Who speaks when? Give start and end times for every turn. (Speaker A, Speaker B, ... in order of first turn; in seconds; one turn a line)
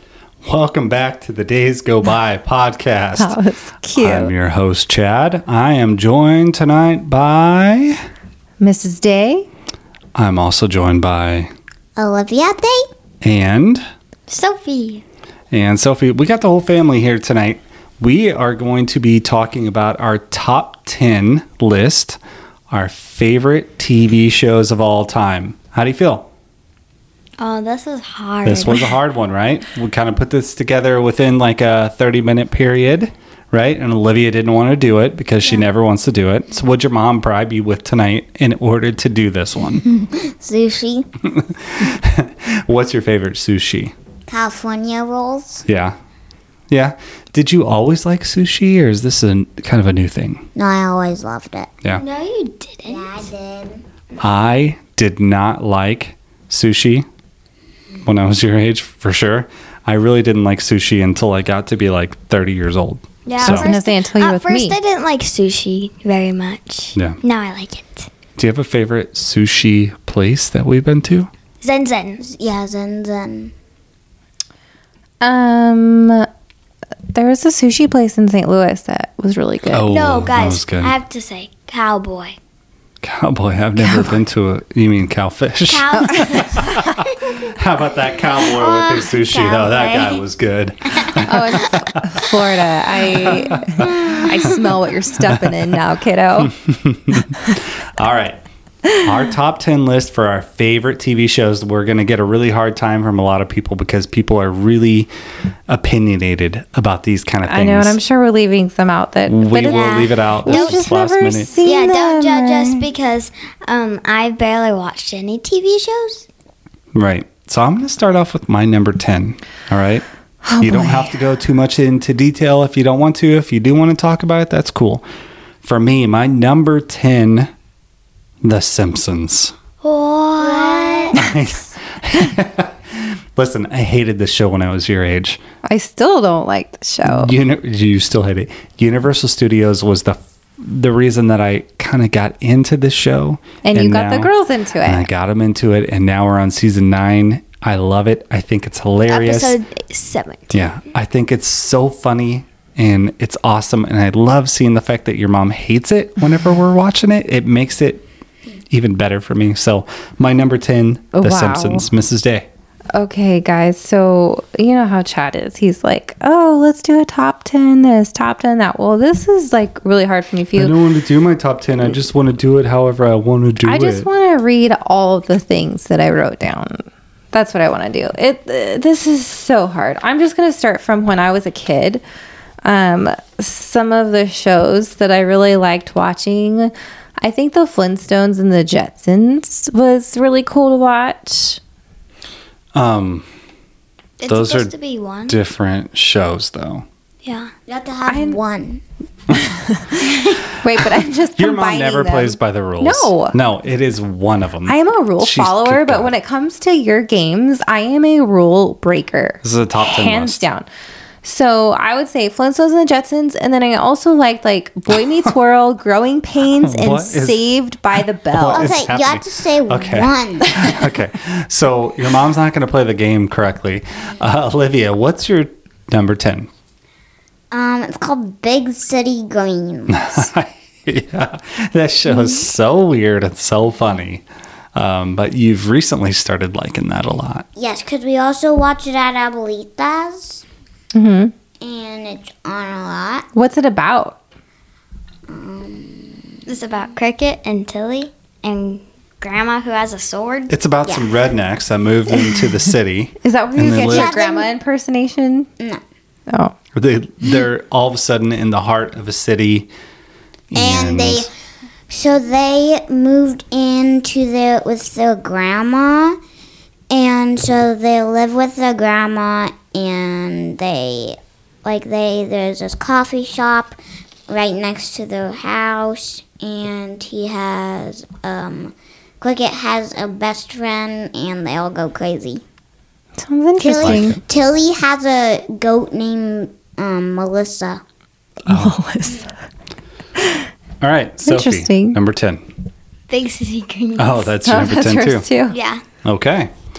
Speaker A: 0.4-3.4
Speaker B: 3.2-4.3
Speaker A: 4.0-8.0
Speaker B: 8.6-9.5
Speaker A: 10.2-11.5
Speaker C: 12.0-12.9
Speaker A: 13.2-13.8
Speaker D: 14.3-15.0
Speaker A: 15.5-22.2
Speaker A: 22.7-26.3
Speaker D: 27.4-28.9
Speaker A: 28.4-39.9
Speaker C: 39.9-41.1
Speaker A: 41.2-43.9
Speaker C: 44.3-45.6
Speaker A: 45.7-46.0
Speaker A: 46.7-50.5
Speaker C: 50.5-51.7
Speaker D: 52.0-53.3
Speaker C: 52.9-53.8
Speaker A: 54.2-57.1
Speaker A: 58.0-63.7
Speaker D: 63.3-68.1
Speaker B: 63.4-64.8
Speaker A: 68.4-71.3
Speaker D: 71.6-72.2
Speaker C: 72.2-73.5
Speaker B: 75.2-76.3
Speaker B: 77.1-79.9
Speaker A: 79.7-81.0
Speaker D: 79.9-82.4
Speaker A: 83.0-92.2
Speaker B: 83.8-84.1
Speaker D: 85.7-87.5
Speaker B: 85.9-86.8
Speaker D: 88.4-90.2
Speaker D: 90.9-91.2
Speaker B: 91.2-96.5
Speaker A: 93.1-94.7
Speaker D: 93.8-94.2
Speaker A: 95.2-95.5
Speaker A: 96.4-98.4
Speaker A: 99.0-105.1
Speaker A: 105.7-108.0
Speaker B: 107.4-112.9
Speaker A: 109.3-111.5
Speaker D: 109.7-110.9
Speaker D: 111.6-116.3
Speaker A: 116.9-120.0
Speaker B: 120.5-121.2
Speaker A: 120.6-125.0
Speaker A: 125.6-127.5
Speaker A: 128.4-129.5
Speaker D: 129.8-131.2
Speaker C: 130.4-131.3
Speaker A: 131.2-135.4
Speaker B: 135.7-137.3
Speaker A: 137.1-144.3
Speaker B: 143.6-145.1
Speaker A: 144.8-149.6
Speaker D: 149.1-150.8
Speaker A: 150.5-158.0
Speaker A: 158.7-162.5
Speaker B: 161.1-161.9
Speaker B: 162.9-170.8
Speaker A: 170.6-174.1
Speaker B: 173.6-182.0
Speaker B: 182.7-191.6
Speaker A: 192.7-193.3
Speaker D: 194.2-195.4
Speaker A: 194.3-194.7
Speaker A: 195.3-196.9
Speaker D: 197.2-197.5
Speaker C: 197.7-198.8
Speaker B: 198.1-198.4
Speaker B: 199.4-203.4
Speaker A: 201.4-206.1
Speaker B: 204.7-210.7
Speaker A: 209.4-210.5
Speaker B: 211.2-218.8
Speaker A: 216.5-217.5
Speaker A: 218.3-226.5
Speaker C: 218.5-220.7
Speaker C: 227.5-230.3
Speaker A: 229.9-234.2
Speaker A: 234.8-237.4
Speaker C: 237.6-240.4
Speaker B: 240.9-241.3
Speaker C: 241.6-243.3
Speaker B: 243.3-244.2
Speaker C: 245.3-246.4
Speaker D: 246.5-250.5
Speaker A: 250.5-254.2
Speaker C: 250.8-251.3
Speaker B: 253.2-255.5
Speaker C: 253.8-254.5
Speaker B: 256.3-256.6
Speaker A: 256.8-259.7
Speaker A: 260.5-261.3
Speaker C: 260.6-261.3
Speaker C: 261.9-266.2
Speaker C: 266.9-273.8
Speaker C: 274.3-282.4
Speaker B: 283.2-284.2
Speaker C: 283.6-287.8
Speaker A: 283.8-284.1
Speaker B: 288.5-289.3
Speaker A: 288.5-288.7
Speaker B: 290.2-290.5
Speaker A: 290.8-292.4
Speaker B: 291.2-292.0
Speaker D: 293.1-294.3
Speaker A: 294.0-295.3
Speaker B: 294.4-295.6
Speaker D: 295.5-295.8
Speaker A: 296.0-296.5